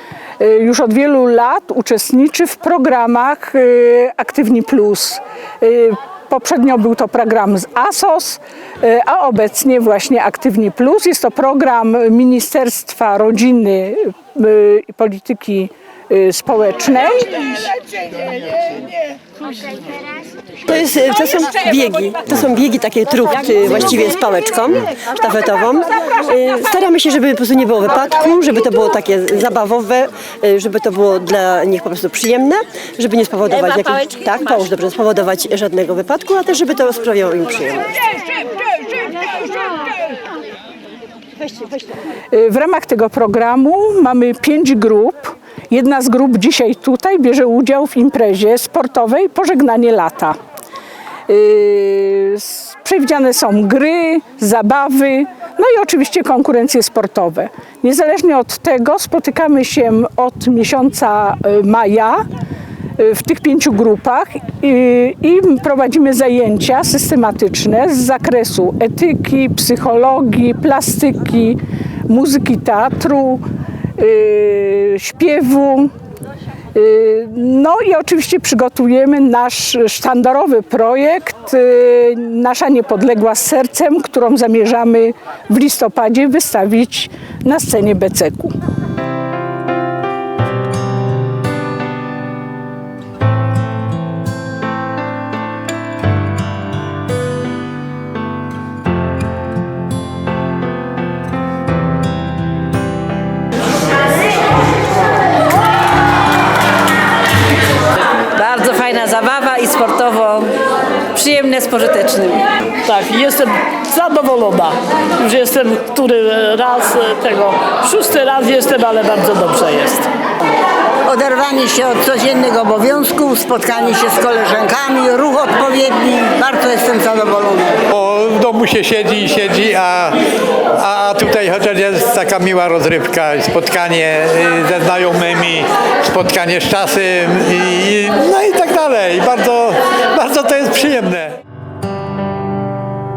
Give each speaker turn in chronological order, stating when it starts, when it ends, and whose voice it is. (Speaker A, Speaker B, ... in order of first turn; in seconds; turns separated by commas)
Speaker A: 0.4-17.3, Speaker B: 20.6-38.1, Speaker A: 42.3-50.4, Speaker A: 51.3-62.2, Speaker A: 63.0-73.4, Speaker A: 74.0-75.9, Speaker A: 76.7-88.5, Speaker C: 108.3-110.5, Speaker C: 111.1-112.5, Speaker D: 112.8-120.1, Speaker E: 121.0-127.8, Speaker F: 127.9-130.2, Speaker F: 130.8-141.3